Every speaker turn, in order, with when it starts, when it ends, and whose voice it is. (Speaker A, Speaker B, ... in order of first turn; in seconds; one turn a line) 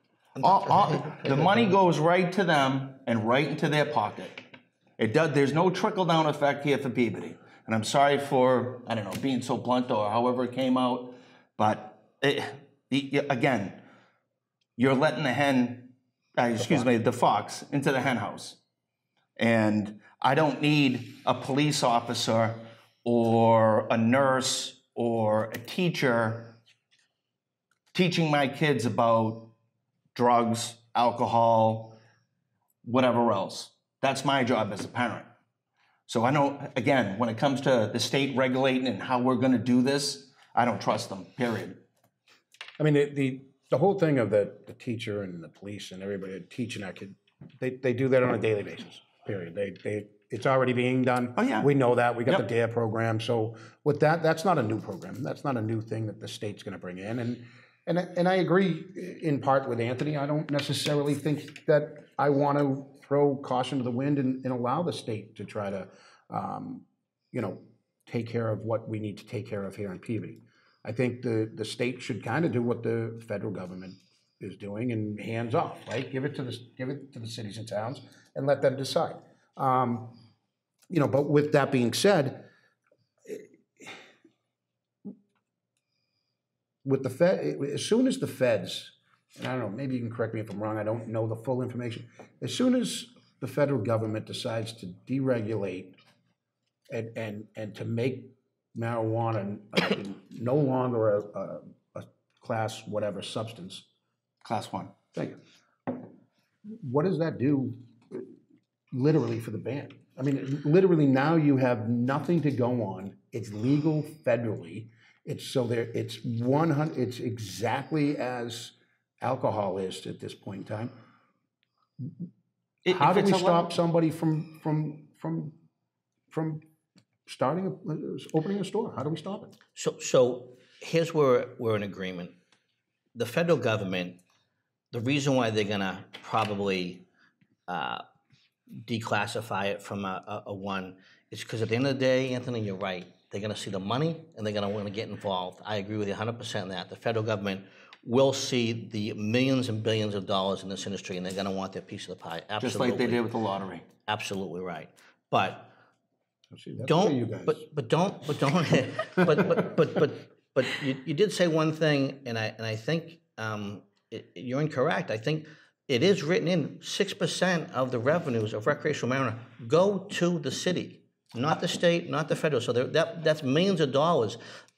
Speaker A: 0.3-1.8
Speaker B: 0.4-13.8
Speaker B: 14.8-18.6
Speaker B: 19.4-26.6
Speaker B: 27.9-29.5
Speaker B: 30.1-32.0
Speaker B: 32.8-35.3
Speaker B: 36.1-41.8
Speaker C: 42.8-80.2
Speaker B: 51.4-51.7
Speaker C: 80.9-82.5
Speaker C: 83.2-84.0
Speaker C: 86.8-96.0
Speaker C: 96.9-103.8
Speaker B: 104.4-104.9
Speaker C: 105.1-106.0
Speaker C: 106.7-108.3
Speaker C: 108.9-120.9
Speaker B: 122.8-123.7
Speaker C: 122.9-125.5
Speaker C: 126.3-126.6
Speaker C: 127.3-129.5
Speaker A: 129.8-132.3
Speaker A: 133.1-134.2
Speaker A: 134.9-137.0
Speaker A: 137.7-138.0
Speaker A: 138.8-153.2
Speaker B: 152.6-153.8
Speaker A: 154.1-155.7
Speaker C: 156.5-157.6
Speaker A: 156.8-174.4
Speaker C: 159.2-159.7